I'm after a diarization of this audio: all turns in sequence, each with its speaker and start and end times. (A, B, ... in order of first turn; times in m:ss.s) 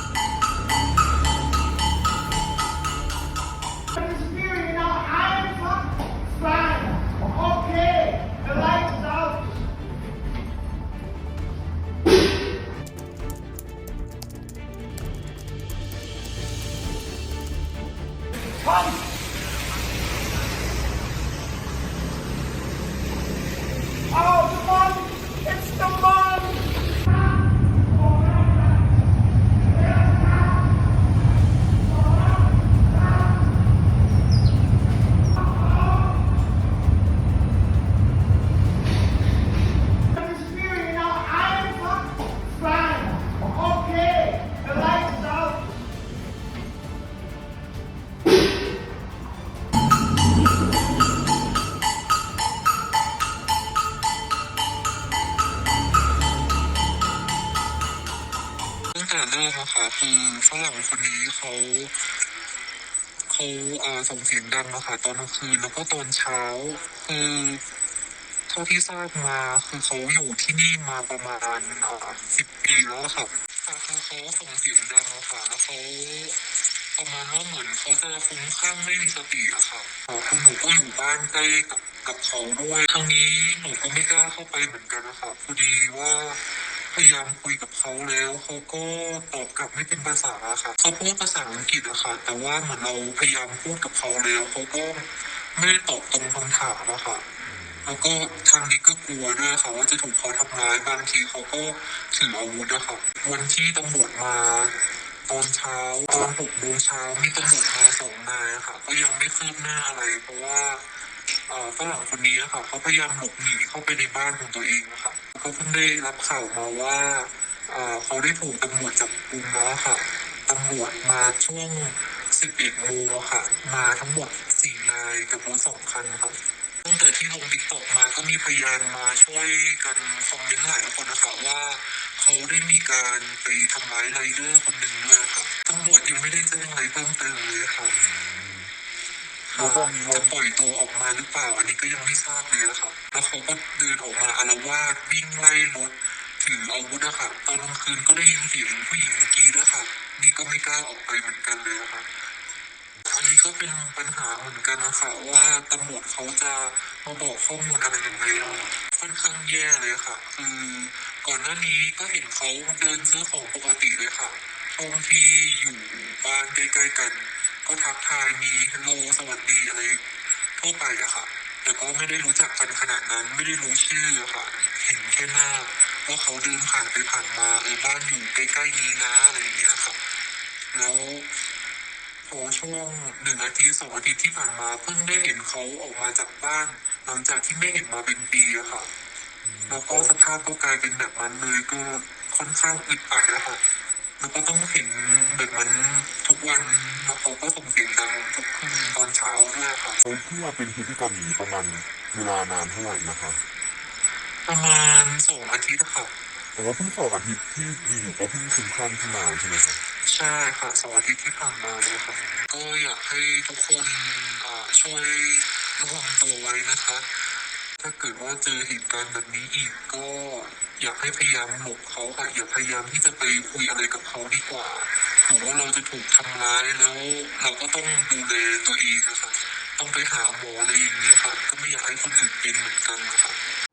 0:04.0-0:09.4 A
0:24.1-0:26.6 A
0:40.2-0:45.6 A
0:58.9-1:02.1 B
1:03.3-1:07.6 B
1:08.5-1:16.4 B
1:16.9-1:37.2 B
1:37.8-1:50.9 B
1:51.5-2:17.9 B
2:18.0-2:18.7 C
2:19.5-2:32.1 B
2:19.5-2:20.3 C
2:33.0-2:50.0 B
2:50.6-3:00.0 B
3:00.7-3:01.3 B
3:02.2-3:08.9 B
3:09.5-3:10.1 C
3:09.7-3:13.6 B
3:14.2-3:20.0 B
3:20.0-3:23.4 C
3:24.4-3:26.1 B
3:26.6-3:29.8 C
3:30.0-3:37.2 B
3:37.8-3:53.4 B